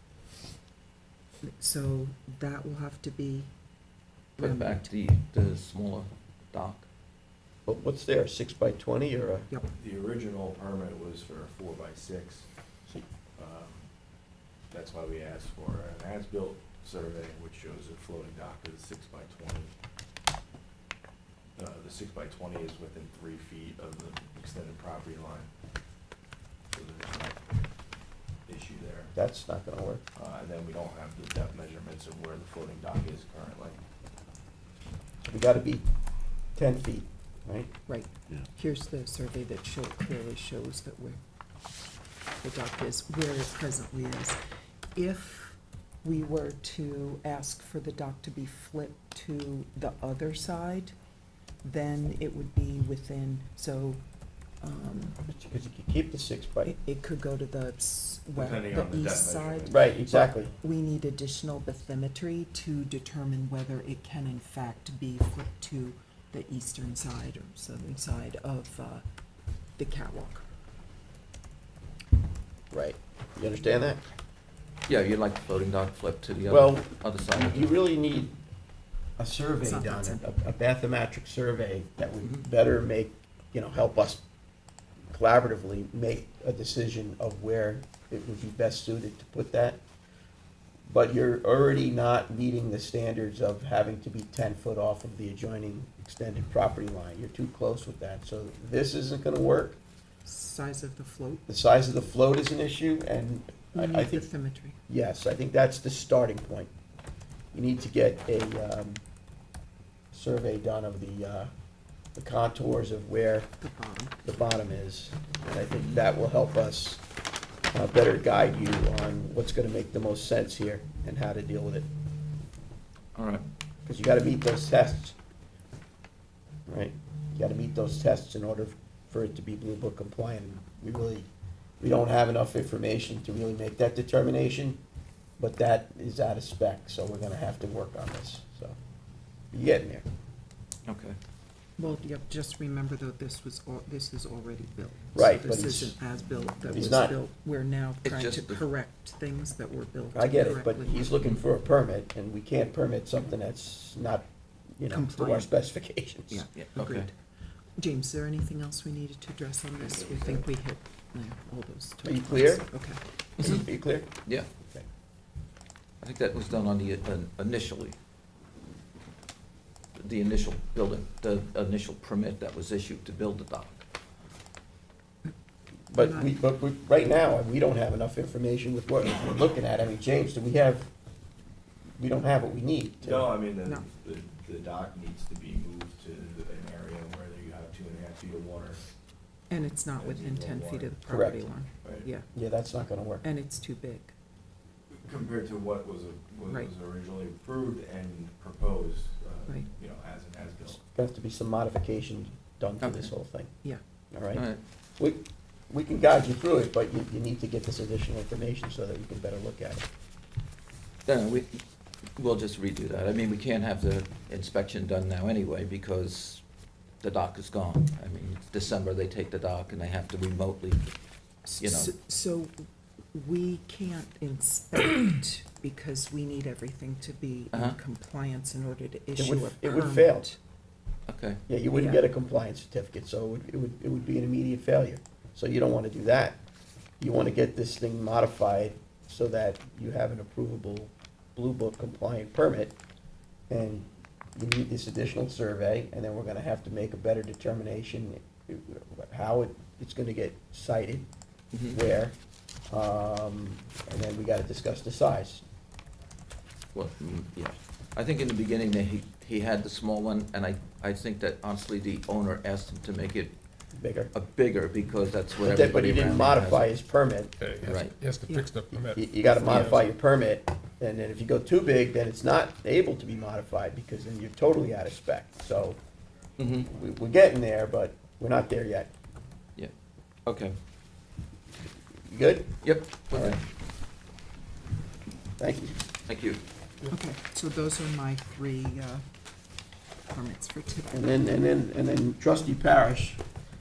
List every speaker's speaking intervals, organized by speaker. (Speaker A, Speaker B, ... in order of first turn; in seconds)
Speaker A: 1.4-3.5, 4.4-4.9, 37.9-41.2, 42.4-44.4, 45.0-50.9, 51.6-54.0, 54.6-55.2, 56.6-69.0, 69.8-70.5, 79.6-80.2, 100.2-101.5, 103.7-104.8, 113.6-114.2, 141.8-151.2, 154.9-155.5, 156.3-157.1, 157.8-163.0, 175.9-176.3, 189.5-192.3, 193.2-194.1, 221.5-222.5, 223.1-230.4, 231.7-232.0, 268.3-268.5, 286.9-289.1, 290.1-291.1
Speaker B: 4.4-6.9, 74.9-77.8, 123.2-123.4, 140.9-141.2, 148.0-148.6, 156.6-157.1, 166.0-167.9, 170.0-173.8, 202.8-203.1, 204.3-204.6, 211.1-211.6, 212.2-216.4, 217.0-220.9, 221.6-221.9, 231.1-231.4, 251.5-251.8, 256.7-263.4, 264.1-266.7, 267.6-268.0, 276.4-276.7, 280.3-280.6, 282.6-283.4, 286.1-286.4
Speaker C: 7.7-9.5, 29.1-30.0, 35.2-35.9, 36.5-37.7, 55.2-56.8, 59.7-60.5, 72.7-74.0, 76.5-78.4, 79.2-84.2, 85.1-89.8, 90.9-99.8, 101.5-104.3, 104.9-106.7, 107.5-109.0, 110.1-111.5, 112.2-113.5, 114.2-117.0, 117.7-121.9, 123.9-125.2, 126.7-131.3, 131.8-134.8, 135.4-138.8, 139.5-140.1, 145.1-146.0, 146.7-147.2, 150.2-154.3, 154.8-156.5, 162.0-162.7, 163.4-164.1, 175.9-180.9, 182.0-183.3, 191.1-191.4, 192.3-193.2, 200.9-203.5, 204.1-204.4, 205.0-209.9, 229.2-230.3, 231.5-236.4, 237.0-242.8, 243.5-251.1, 251.7-252.2, 252.7-255.4, 263.8-264.1, 265.4-267.4, 268.7-275.8, 276.7-278.9, 282.1-283.4, 285.4-285.8, 290.9-293.2
Speaker D: 9.8-12.5, 13.4-13.9, 14.7-19.7, 21.6-25.5, 26.7-27.4, 28.5-29.1, 30.2-33.8, 58.3-59.9, 159.8-160.5, 183.0-188.8, 190.0-191.0, 194.9-200.8
Speaker E: 267.4-269.9